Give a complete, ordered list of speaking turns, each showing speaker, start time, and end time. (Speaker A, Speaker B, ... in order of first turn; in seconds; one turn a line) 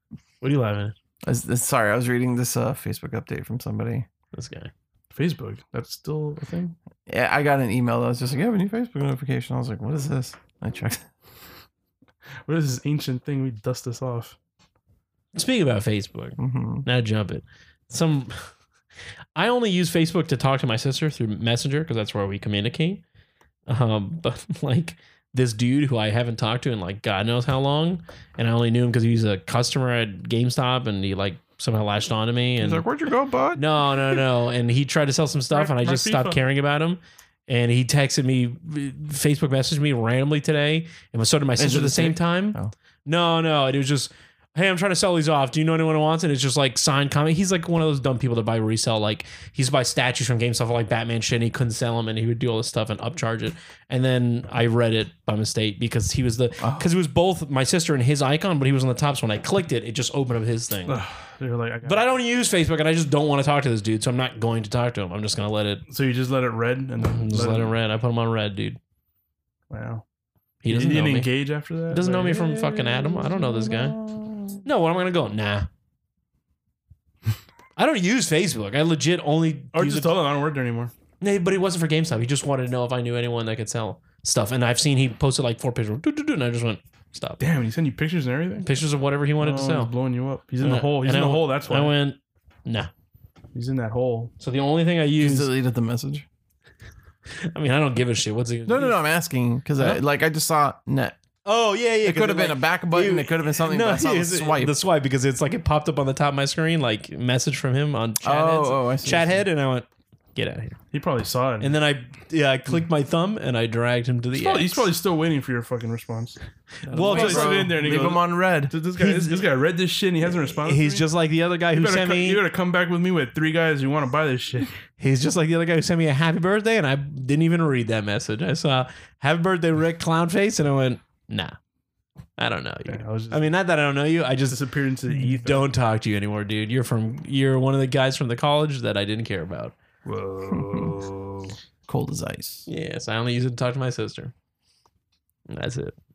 Speaker A: 0.4-0.9
Speaker B: 1.2-4.1
Speaker A: 4.3-4.7
Speaker C: 5.1-6.8
Speaker B: 7.1-11.1
Speaker C: 12.4-14.4
Speaker A: 15.3-18.5
Speaker B: 16.4-16.9
Speaker A: 19.3-23.0
Speaker A: 23.7-32.8
Speaker B: 32.6-33.6
Speaker A: 33.5-61.0
Speaker C: 35.5-36.4
Speaker B: 41.6-42.7
Speaker B: 56.6-56.9
Speaker C: 60.9-62.0
Speaker A: 61.8-65.8
Speaker C: 65.9-67.7
Speaker A: 67.0-68.8
Speaker C: 69.7-70.0
Speaker A: 70.6-71.3
Speaker C: 70.7-73.8
Speaker A: 71.9-74.0
Speaker B: 73.7-74.4
Speaker A: 74.6-75.7
Speaker A: 77.8-80.2
Speaker C: 79.7-80.9
Speaker A: 81.2-87.4
Speaker C: 87.4-88.7
Speaker A: 88.6-89.9
Speaker C: 89.4-91.9
Speaker A: 90.6-92.9
Speaker C: 93.5-94.3
Speaker A: 94.4-95.5
Speaker B: 95.2-96.2
Speaker A: 97.4-99.0
Speaker B: 98.7-101.2
Speaker A: 101.4-110.8
Speaker B: 102.0-104.8
Speaker B: 108.2-109.4
Speaker C: 110.9-111.8
Speaker A: 111.6-114.9
Speaker C: 114.3-116.4
Speaker A: 116.8-117.7
Speaker B: 116.8-118.7
Speaker C: 117.0-121.1
Speaker A: 119.0-119.4
Speaker A: 120.3-122.4
Speaker C: 121.7-124.7
Speaker A: 125.0-131.6
Speaker A: 132.4-139.7
Speaker C: 132.8-133.5
Speaker C: 134.5-135.7
Speaker C: 140.0-141.6
Speaker B: 140.6-140.8
Speaker B: 141.9-142.7
Speaker A: 142.7-144.3
Speaker A: 145.5-145.9